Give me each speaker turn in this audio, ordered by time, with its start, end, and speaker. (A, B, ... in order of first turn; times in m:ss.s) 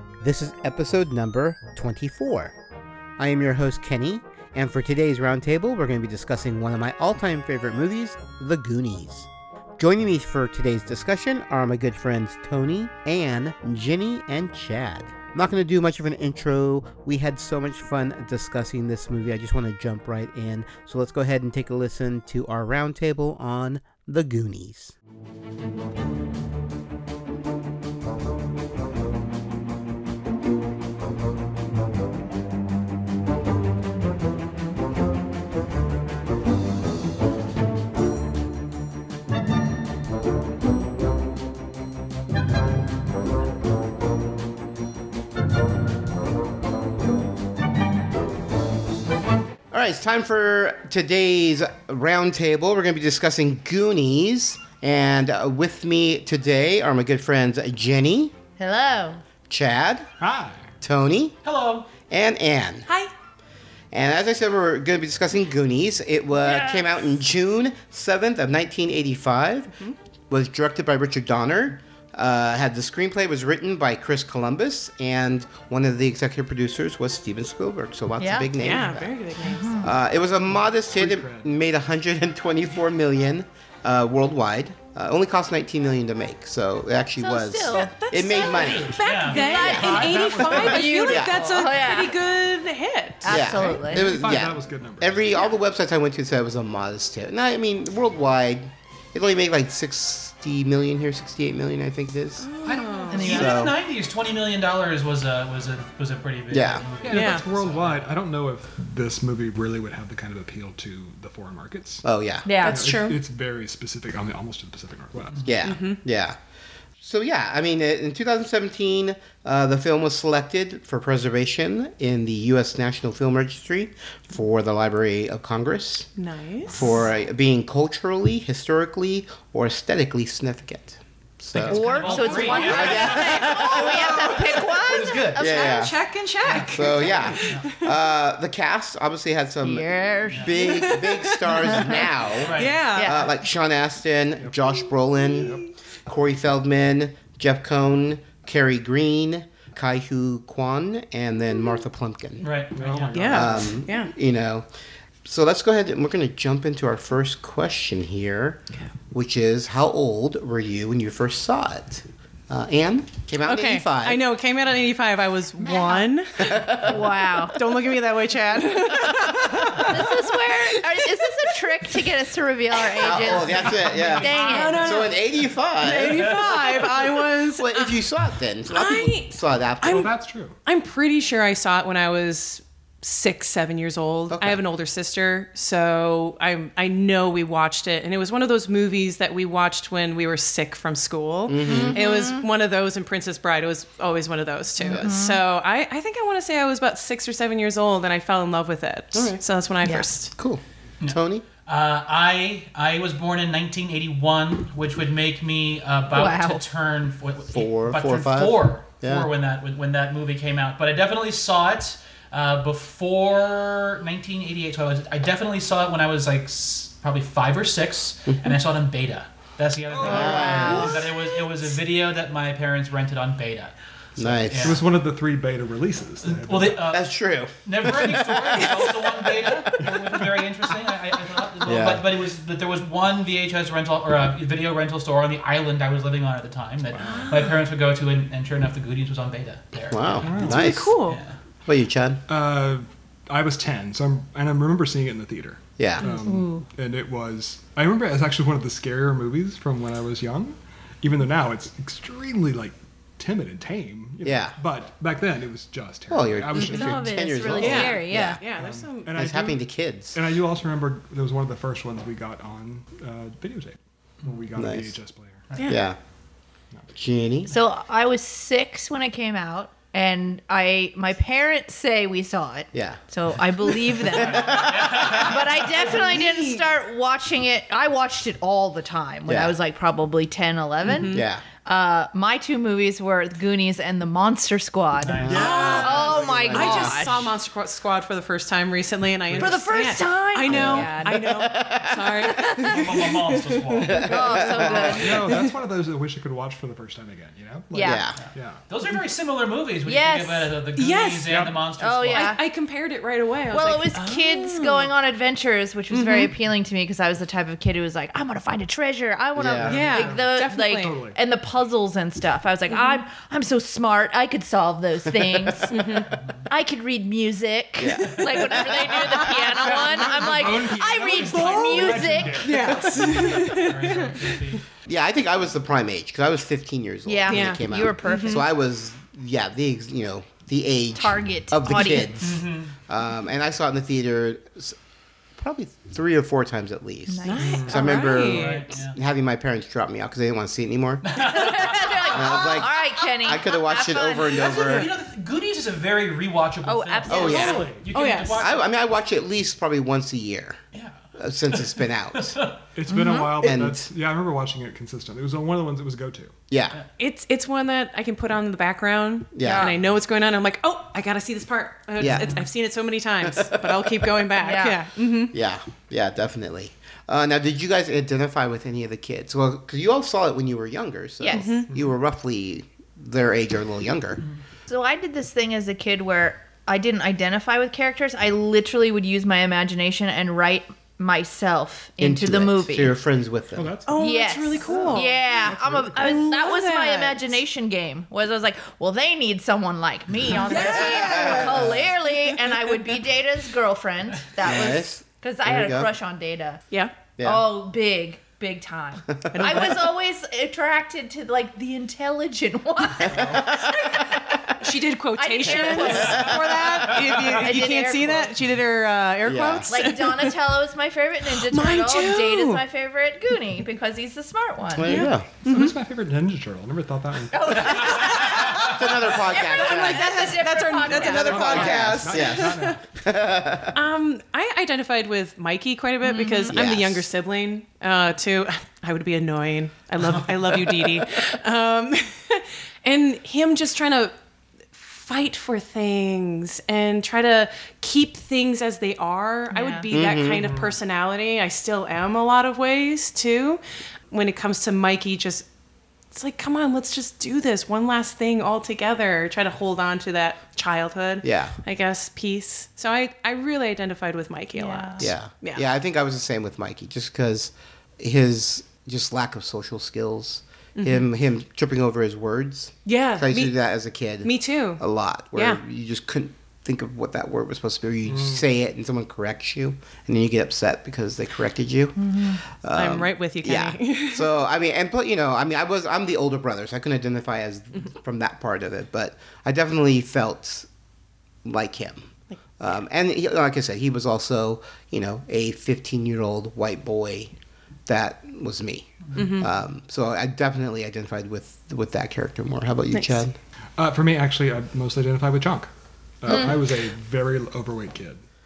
0:00.2-0:02.6 A
0:03.2-0:25.0 A
0:49.7-0:58.3 A
0:58.6-0:59.2 B
0:59.5-1:00.1 A
1:00.2-1:00.6 C
1:00.8-1:01.4 A
1:01.4-1:01.9 D
1:02.1-1:02.9 A
1:02.9-1:03.1 E
1:03.9-1:09.7 A
1:10.3-1:19.2 A
1:18.2-1:18.5 B
1:18.6-1:19.8 E
1:19.4-1:19.9 B
1:19.8-1:31.5 A
1:20.5-1:21.5 C
1:27.2-1:28.0 B
1:27.8-1:33.4 E
1:28.4-1:30.8 D
1:29.3-1:32.2 B
1:29.7-1:30.8 C
1:33.2-1:34.1 B
1:33.3-1:42.5 A
1:33.4-1:35.3 C
1:42.4-1:43.6 E
1:42.6-1:48.1 D
1:43.1-1:43.7 B
1:43.2-1:43.7 A
1:46.5-1:46.8 A
1:47.0-1:52.0 C
1:47.1-1:47.4 E
1:52.0-1:52.5 A
1:52.4-1:52.8 B
1:52.6-1:53.2 E
1:52.6-1:55.5 C
1:55.4-1:56.4 A
1:55.6-1:56.0 E
1:57.0-2:06.1 A
2:06.2-2:07.0 E
2:06.7-2:11.9 A
2:11.6-2:13.6 D
2:11.6-2:15.2 B
2:11.7-2:12.7 C
2:12.5-2:12.9 E
2:12.5-2:14.5 A
2:13.7-2:14.7 E
2:14.3-2:15.5 D
2:15.3-2:17.9 E
2:15.3-2:16.0 A
2:16.4-2:17.7 D
2:16.7-2:32.5 A
2:19.6-2:20.9 B
2:20.3-2:20.6 D
2:20.6-2:21.9 E
2:21.6-2:22.0 B
2:22.4-2:22.8 D
2:22.5-2:23.3 E
2:23.0-2:23.3 B
2:25.4-2:25.6 C
2:32.4-2:33.2 D
2:32.7-2:33.8 C
2:33.1-2:34.1 E
2:33.3-2:34.7 A
2:35.2-2:38.6 A
2:39.1-2:44.2 A
2:43.4-2:46.7 E
2:45.6-2:46.0 C
2:46.4-2:47.0 A
2:46.8-2:47.6 B
2:47.5-2:50.2 E
2:49.0-2:49.9 A
2:49.8-2:55.0 B
2:53.0-2:56.8 A
2:53.0-2:55.2 E
2:53.6-2:54.7 C
2:55.8-2:58.0 E
2:56.1-2:56.6 D
2:57.5-3:00.1 A
2:58.7-3:00.1 E
2:59.9-3:00.6 C
3:00.6-3:20.3 E
3:04.3-3:04.6 A
3:11.5-3:12.0 A
3:11.6-3:12.5 B
3:14.8-3:15.4 B
3:19.1-3:19.4 A
3:20.4-3:21.4 A
3:21.0-3:44.8 D
3:26.1-3:26.6 B
3:27.5-3:29.3 A
3:38.3-3:38.6 A
3:39.9-3:40.7 C
3:40.0-3:41.5 E
3:40.0-3:41.1 A
3:40.1-3:40.9 B
3:44.2-3:44.8 A
3:44.6-3:46.9 C
3:46.2-4:01.4 D
3:46.9-3:48.8 A
3:48.5-3:49.9 E
3:49.8-3:50.3 C
3:51.6-3:52.1 A
3:56.9-3:57.4 C
3:57.0-3:57.6 E
3:59.9-4:01.0 A
4:00.2-4:00.7 C
4:00.5-4:01.2 E
4:01.7-4:02.2 A
4:02.3-4:17.7 C
4:05.8-4:06.0 A
4:06.0-4:06.7 B
4:14.2-4:14.6 A
4:16.1-4:18.4 A
4:16.6-4:18.4 B
4:17.6-4:19.3 E
4:18.5-4:25.5 C
4:19.1-4:20.2 A
4:24.6-4:24.9 A
4:25.5-4:25.8 D
4:25.7-4:26.0 A
4:26.9-4:27.5 A
4:27.5-4:47.2 B
4:32.7-4:33.0 A
4:33.7-4:35.3 A
4:34.6-4:35.5 D
4:35.6-4:36.7 E
4:39.3-4:39.6 A
4:40.8-4:41.3 E
4:41.1-4:41.4 A
4:45.0-4:45.8 D
4:45.2-4:47.3 A
4:45.3-4:54.0 E
4:49.3-4:49.6 C
4:49.4-4:51.4 B
4:50.5-4:52.7 A
4:52.3-4:52.8 B
4:52.7-4:54.2 D
4:53.8-4:55.2 A
4:54.0-4:55.2 B
4:54.6-4:58.6 C
4:55.2-4:55.5 E
4:57.7-4:58.0 B
4:57.8-4:58.2 A
4:58.2-5:02.4 D
4:59.9-5:00.5 B
5:00.8-5:01.3 E
5:01.3-5:01.6 C
5:01.8-5:02.4 B
5:02.1-5:04.9 E
5:03.5-5:15.8 B
5:05.9-5:06.3 E
5:09.4-5:09.8 A
5:09.6-5:11.2 C
5:09.7-5:11.0 E
5:12.7-5:13.0 E
5:15.2-5:15.9 A
5:15.7-5:16.1 E
5:16.1-5:16.5 D
5:16.5-5:22.4 B
5:17.8-5:19.3 A
5:19.6-5:23.6 C
5:21.4-5:24.4 E
5:23.6-5:24.6 D
5:24.9-5:34.8 A
5:27.1-5:28.4 B
5:27.3-5:28.4 E
5:31.0-5:32.2 B
5:32.2-5:32.7 D
5:35.4-5:44.9 A
5:37.1-5:38.0 B
5:37.2-5:38.8 E
5:37.5-5:38.0 C
5:38.2-5:39.0 D
5:41.0-5:42.0 D
5:41.3-5:44.7 B
5:44.5-5:48.6 D
5:46.6-5:47.7 B
5:47.1-5:47.7 A
5:47.3-5:47.9 C
5:47.3-5:48.5 E
5:48.4-5:50.6 A
5:51.2-5:52.3 A
5:51.5-5:52.6 D
5:52.8-5:56.4 C
5:52.9-5:53.5 B
5:53.4-5:53.9 A
5:56.5-5:56.8 A
5:57.0-6:05.4 E
5:59.3-5:59.7 A
5:59.4-5:59.8 B
6:02.0-6:02.4 A
6:02.2-6:02.4 D
6:03.2-6:04.3 A
6:04.4-6:04.8 B
6:05.3-6:14.2 A
6:11.2-6:11.6 B
6:11.3-6:11.7 E
6:14.7-6:22.9 B
6:22.0-6:23.8 A
6:23.6-6:24.0 C
6:23.9-6:25.2 E
6:24.0-6:36.6 B
6:24.6-6:26.2 C
6:26.0-6:27.4 E
6:30.3-6:31.8 E
6:30.8-6:31.8 A
6:34.4-6:35.9 A
6:37.2-6:37.5 A
6:37.2-6:44.6 B
6:39.1-6:39.6 A
6:39.3-6:39.9 E
6:43.0-6:43.5 A
6:43.1-6:43.5 C
6:44.6-6:50.4 E
6:45.2-6:46.4 B
6:45.8-6:46.7 A
6:47.1-6:48.4 B
6:49.2-6:49.7 A
6:49.7-6:55.1 B
6:51.3-6:52.6 E
6:54.7-6:55.3 A
6:54.8-6:55.8 E
6:55.5-6:58.0 C
6:57.3-7:02.0 B
6:58.0-6:58.5 E
6:58.0-6:58.7 D
6:58.2-7:03.8 A
6:59.4-7:02.8 E
7:00.9-7:02.8 C
7:03.7-7:14.1 E
7:06.0-7:06.6 B
7:06.5-7:07.1 A
7:14.7-7:25.5 E
7:19.5-7:19.9 B
7:19.9-7:20.5 A
7:20.4-7:20.8 C
7:26.1-7:35.6 E
7:31.2-7:31.6 A
7:34.6-7:35.1 B
7:35.0-8:00.7 A
7:40.8-7:41.1 E
7:42.9-7:43.6 E
7:44.2-7:44.8 E
7:45.4-7:45.6 E
7:48.1-7:48.4 C
7:52.0-7:52.4 B
7:52.7-7:54.3 E
8:01.4-8:07.3 A
8:07.9-8:13.4 A
8:09.2-8:09.5 E
8:12.9-8:13.2 E
8:13.8-8:18.2 C